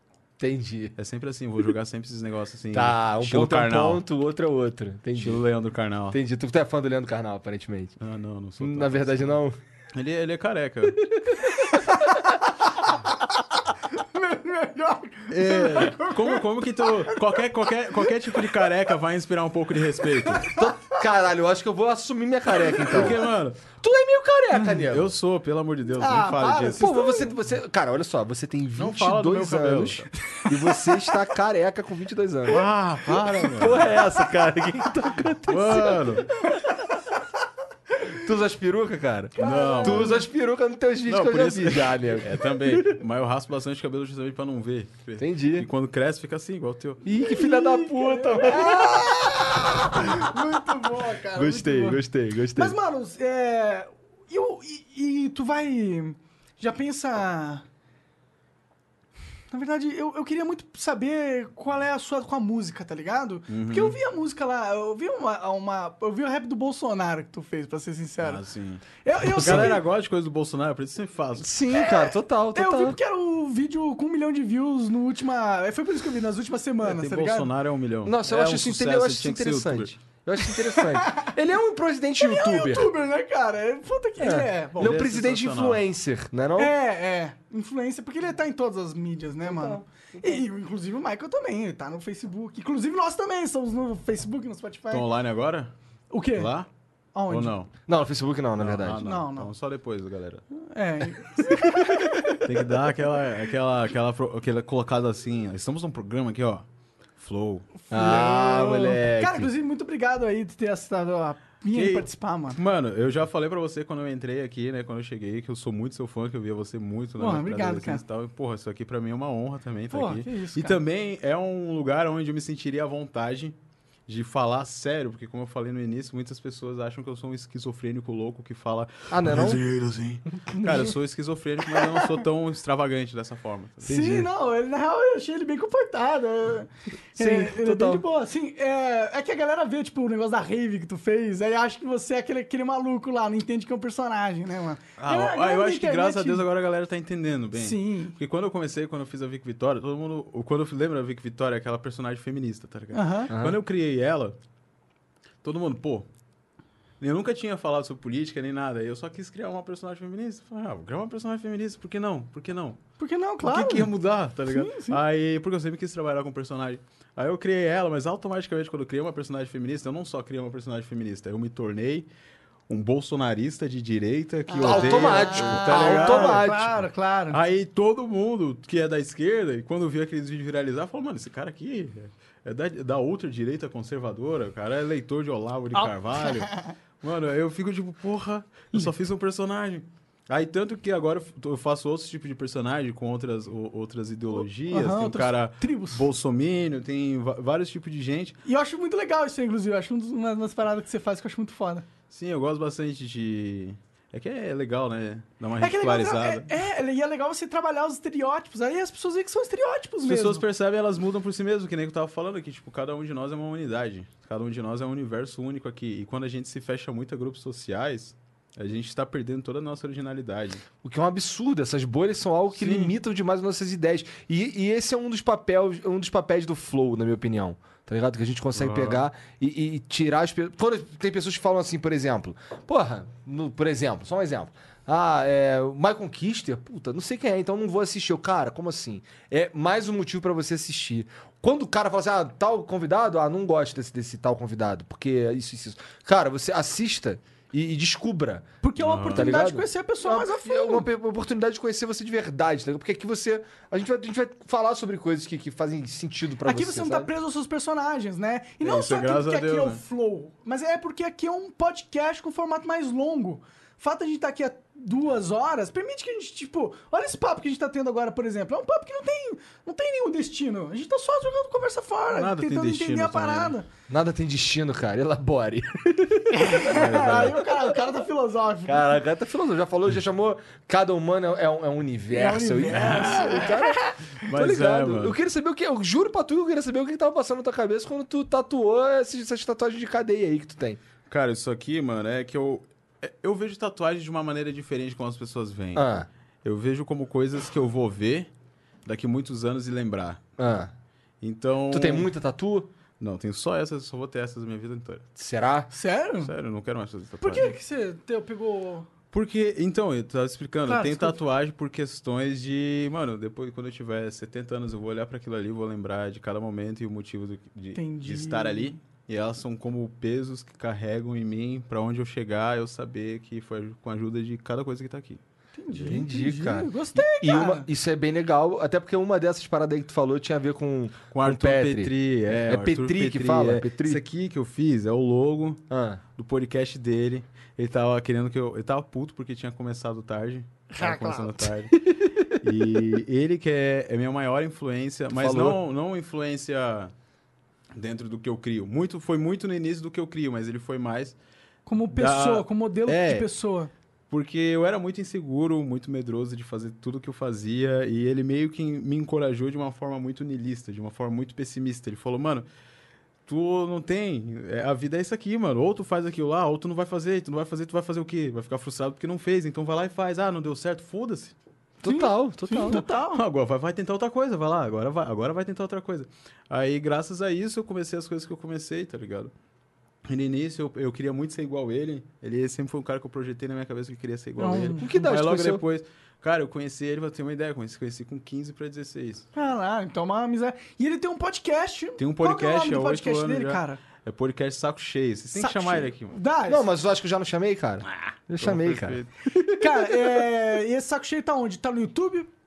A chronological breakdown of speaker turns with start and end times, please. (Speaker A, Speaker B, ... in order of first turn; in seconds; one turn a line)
Speaker A: 0.4-0.9
Speaker B: 1.0-4.0
Speaker A: 2.7-5.4
Speaker B: 5.2-6.2
Speaker A: 6.1-7.9
Speaker B: 8.0-9.4
Speaker A: 8.6-9.6
Speaker B: 9.9-11.4
Speaker C: 14.0-16.4
Speaker B: 15.3-20.5
Speaker A: 20.5-23.2
Speaker B: 22.9-23.6
Speaker A: 23.7-25.1
Speaker B: 24.8-26.9
Speaker C: 26.0-27.3
Speaker A: 26.8-32.6
Speaker B: 28.8-30.1
Speaker C: 30.3-31.0
Speaker B: 32.5-33.9
Speaker A: 33.5-36.2
Speaker B: 35.5-36.3
Speaker A: 38.1-43.0
Speaker C: 39.4-40.2
Speaker B: 39.4-40.2
Speaker B: 41.1-47.0
Speaker A: 45.2-45.7
Speaker A: 47.0-50.3
Speaker C: 47.1-52.0
Speaker A: 51.3-52.8
Speaker C: 52.6-57.6
Speaker C: 59.5-68.4
Speaker B: 63.5-64.0
Speaker B: 68.2-71.5
Speaker C: 69.0-69.8
Speaker A: 69.4-69.8
Speaker A: 71.4-73.0
Speaker C: 71.7-77.5
Speaker B: 76.8-79.9
Speaker A: 78.0-82.9
Speaker C: 80.5-81.3
Speaker C: 82.2-84.9
Speaker A: 84.2-86.7
Speaker B: 84.8-85.8
Speaker C: 86.6-95.1
Speaker A: 89.4-90.4
Speaker B: 94.9-95.7
Speaker C: 96.1-96.5
Speaker B: 96.3-96.7
Speaker C: 97.2-97.5
Speaker B: 97.3-97.7
Speaker A: 97.9-99.0
Speaker B: 98.6-100.5
Speaker C: 99.0-99.5
Speaker C: 100.6-102.4
Speaker B: 102.4-106.7
Speaker B: 107.2-107.8
Speaker C: 107.9-112.6
Speaker A: 107.9-109.5
Speaker B: 111.7-123.6
Speaker C: 117.2-118.0
Speaker C: 119.9-120.8
Speaker B: 124.1-134.2
Speaker A: 129.1-129.6
Speaker C: 133.8-146.4
Speaker A: 133.9-134.3
Speaker A: 137.2-138.1
Speaker B: 145.0-154.4
Speaker C: 147.6-148.2
Speaker C: 152.9-153.3
Speaker A: 153.3-153.6
Speaker B: 155.4-156.1
Speaker B: 157.0-162.8
Speaker C: 163.0-163.9
Speaker B: 163.4-172.1
Speaker C: 164.5-165.0
Speaker B: 172.7-176.5
Speaker C: 174.5-177.4
Speaker A: 174.6-176.7
Speaker B: 177.3-198.4
Speaker C: 185.8-186.7
Speaker C: 194.7-196.1
Speaker C: 198.4-201.8
Speaker B: 202.1-206.5
Speaker C: 205.6-210.4
Speaker B: 210.0-220.7
Speaker A: 220.8-248.5
Speaker B: 222.6-222.9
Speaker B: 228.6-229.1
Speaker C: 248.6-250.9
Speaker B: 248.8-249.3
Speaker A: 249.1-257.1
Speaker C: 256.4-273.7
Speaker B: 258.6-259.8
Speaker B: 272.1-273.6
Speaker A: 273.9-277.6
Speaker C: 276.3-278.9
Speaker B: 276.6-277.4
Speaker A: 278.7-290.8
Speaker C: 282.1-283.8
Speaker B: 282.7-283.5
Speaker B: 284.2-285.2
Speaker B: 291.1-298.3
Speaker A: 295.8-296.1
Speaker B: 298.9-300.2
Speaker A: 300.4-300.7
Speaker B: 301.2-302.1
Speaker A: 301.7-302.7
Speaker B: 303.0-305.1
Speaker A: 305.2-305.7
Speaker C: 305.7-306.3
Speaker B: 306.2-307.6
Speaker C: 307.2-308.9
Speaker B: 309.1-325.2
Speaker C: 310.7-311.2
Speaker C: 317.8-318.8
Speaker C: 325.6-327.7
Speaker A: 325.7-334.0
Speaker B: 331.1-335.6
Speaker A: 335.7-336.0
Speaker B: 336.2-341.8
Speaker C: 340.7-341.5
Speaker B: 342.4-346.9
Speaker A: 345.1-345.6
Speaker B: 347.8-351.2
Speaker C: 351.7-353.7
Speaker B: 351.9-353.2
Speaker B: 354.1-362.5
Speaker B: 363.3-371.4
Speaker A: 371.8-372.9
Speaker C: 371.9-373.2
Speaker B: 372.7-379.3
Speaker B: 380.1-389.3
Speaker C: 384.4-384.9
Speaker A: 384.8-385.6
Speaker C: 389.3-393.8
Speaker B: 392.0-396.2
Speaker C: 395.4-396.7
Speaker A: 396.5-399.0
Speaker B: 397.9-399.1
Speaker C: 399.5-402.3